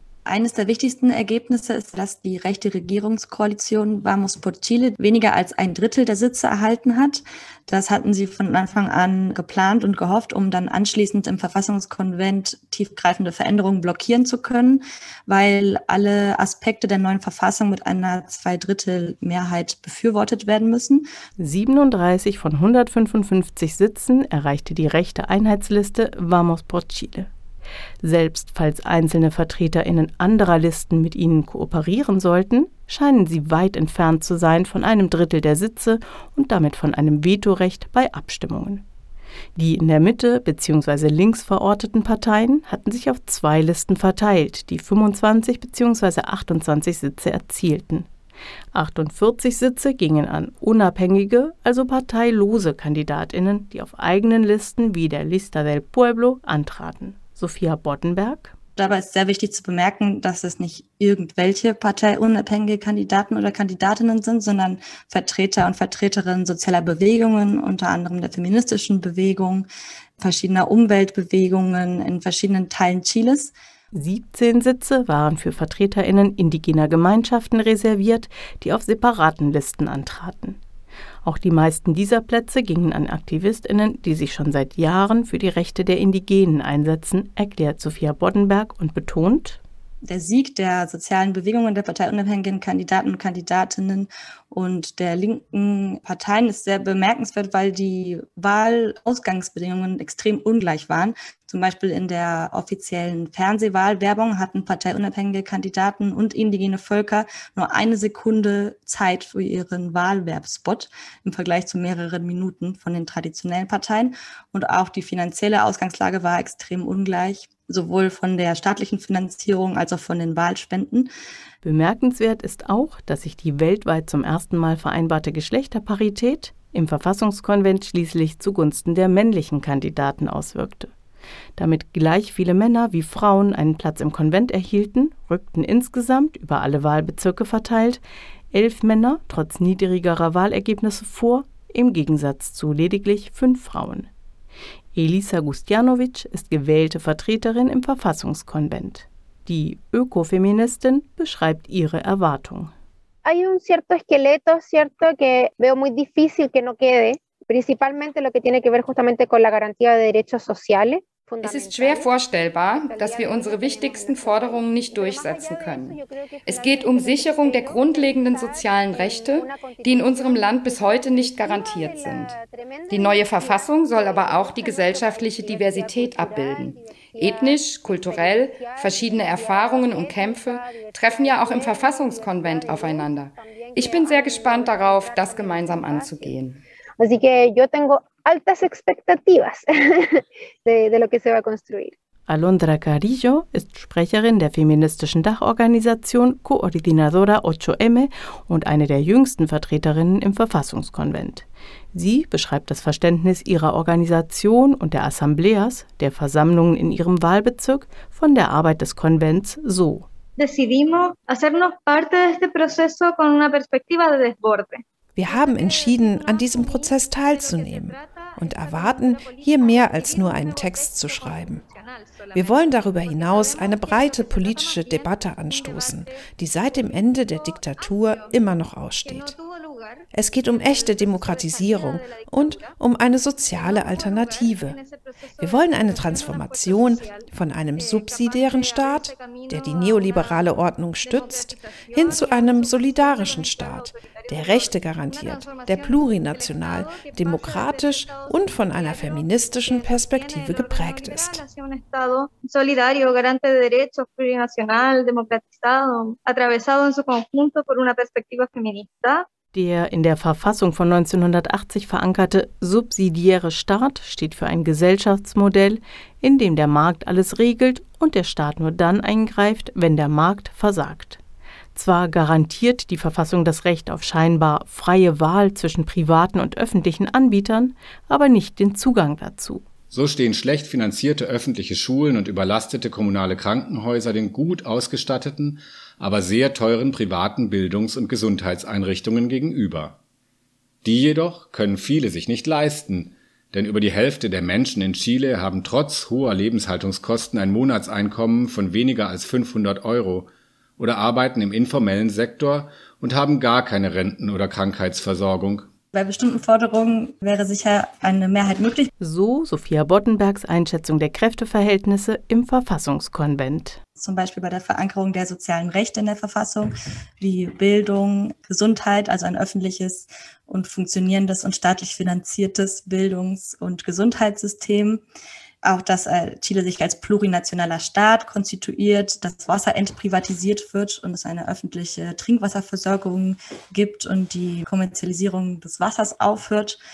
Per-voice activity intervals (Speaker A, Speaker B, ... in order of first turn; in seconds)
Speaker A: 0.3-21.1, 58.8-69.7, 70.2-73.5, 90.0-121.1, 305.9-308.9, 314.0-325.0, 325.6-336.8
Speaker B: 21.4-27.3, 28.0-38.8, 39.6-48.1, 48.7-58.5, 73.9-80.6, 81.2-89.6, 121.6-130.9, 131.6-138.0, 138.5-144.1, 144.9-152.7, 192.3-210.1, 259.5-271.2, 271.8-279.6, 309.0-313.8
Speaker C: 153.2-162.1, 162.8-177.5, 178.1-186.3, 187.0-191.9
Speaker D: 161.4-172.4, 172.9-186.6
Speaker E: 210.4-228.3, 229.1-232.7, 233.6-259.3
Speaker F: 215.2-221.6, 222.3-229.4, 230.1-234.8, 235.4-251.4
Speaker G: 279.9-290.0, 290.8-305.7